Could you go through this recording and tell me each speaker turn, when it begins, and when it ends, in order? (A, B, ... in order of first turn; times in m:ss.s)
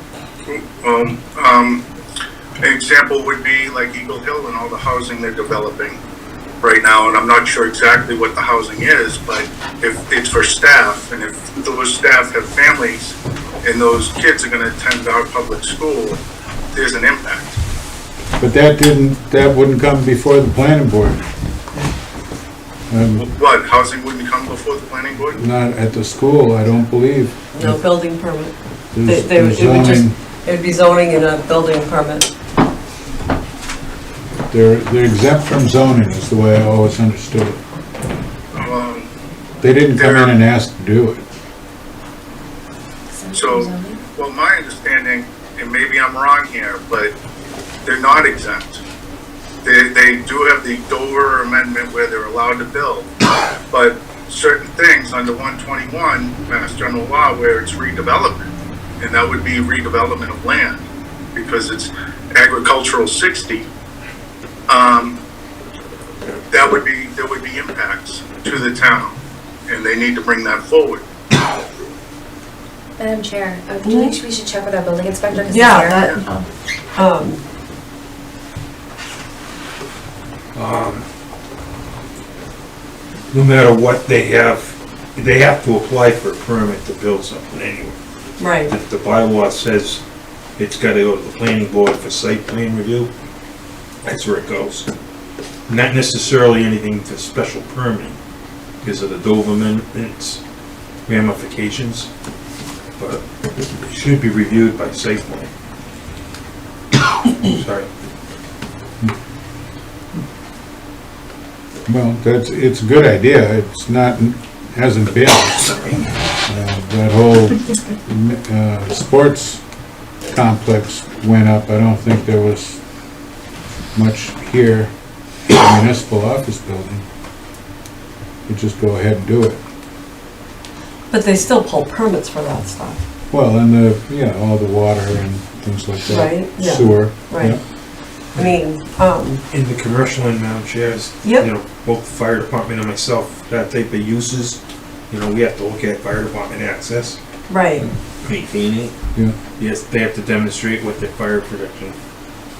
0:00.5-0:01.8 A
0:02.6-0:06.0 A
0:06.6-0:16.2 A
0:16.7-0:17.6 A
0:18.4-0:21.2 B
0:22.9-0:23.3 B
0:23.2-0:25.4 A
0:25.4-0:27.8 B
0:27.5-0:32.3 C
0:28.9-0:30.2 B
0:34.5-0:37.6 B
0:38.6-0:39.1 A
0:39.6-0:41.3 B
0:40.0-0:40.3 A
0:43.1-0:44.0 D
0:43.3-0:47.1 A
0:47.8-0:48.8 A
0:49.6-0:53.1 A
0:53.7-0:58.5 A
0:59.0-1:03.7 A
1:04.7-1:05.2 A
1:06.5-1:11.0 A
1:13.0-1:16.5 D
1:13.8-1:14.2 C
1:15.5-1:16.2 C
1:17.0-1:17.4 C
1:20.5-1:21.0 E
1:23.3-1:28.0 E
1:28.4-1:28.7 C
1:28.7-1:30.0 E
1:30.6-1:33.1 E
1:34.0-1:34.9 E
1:35.7-1:38.2 E
1:38.8-1:40.4 E
1:41.0-1:42.1 E
1:43.0-1:45.5 E
1:47.4-1:47.9 E
1:51.9-1:55.8 B
1:55.7-1:56.0 E
1:56.4-1:59.6 B
2:00.3-2:02.8 B
2:03.9-2:04.9 B
2:05.5-2:07.0 B
2:08.5-2:09.6 B
2:11.1-2:13.0 C
2:13.3-2:17.6 B
2:16.1-2:17.6 C
2:18.3-2:19.4 C
2:19.5-2:27.2 E
2:21.2-2:21.5 C
2:27.5-2:27.9 C
2:28.2-2:29.0 E
2:29.6-2:32.0 E